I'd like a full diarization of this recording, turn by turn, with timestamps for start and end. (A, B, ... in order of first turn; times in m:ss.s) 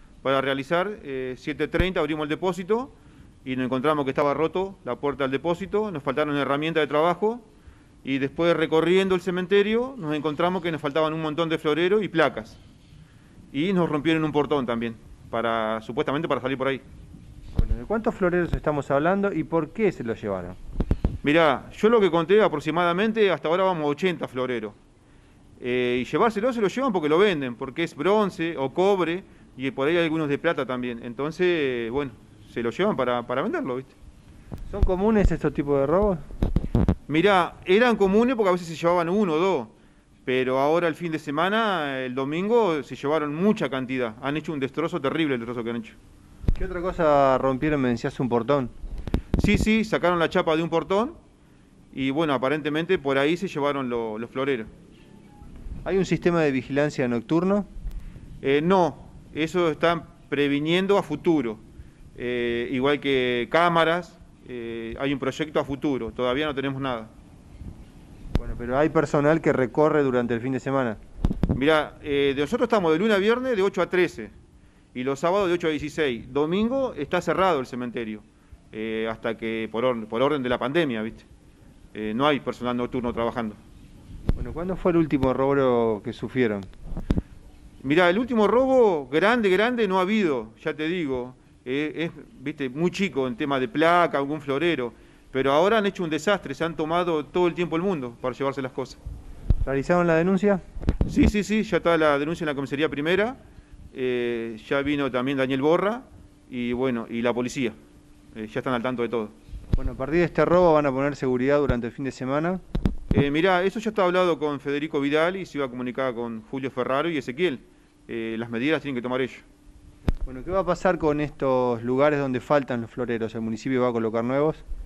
0:00.2-0:02.9 A
0:03.4-0:07.4 A
0:08.0-0:12.6 A
0:13.5-0:16.8 A
0:17.6-0:20.6 B
0:21.2-0:24.8 A
0:25.6-0:34.0 A
0:34.7-0:36.2 B
0:37.1-0:39.7 A
0:40.3-0:46.0 A
0:46.6-0:48.7 B
0:49.4-0:51.2 A
0:51.9-0:54.7 A
0:55.8-0:57.7 B
0:58.4-1:01.6 A
1:02.2-1:07.1 A
1:08.4-1:11.0 B
1:11.6-1:14.3 A
1:14.9-1:21.3 A
1:21.9-1:23.6 A
1:24.4-1:26.7 B
1:27.8-1:39.0 A
1:39.6-1:40.6 B
1:41.0-1:43.4 A
1:43.9-1:47.8 A
1:48.3-1:49.3 A
1:49.8-1:52.6 B
1:53.1-1:59.4 A
2:00.2-2:04.6 B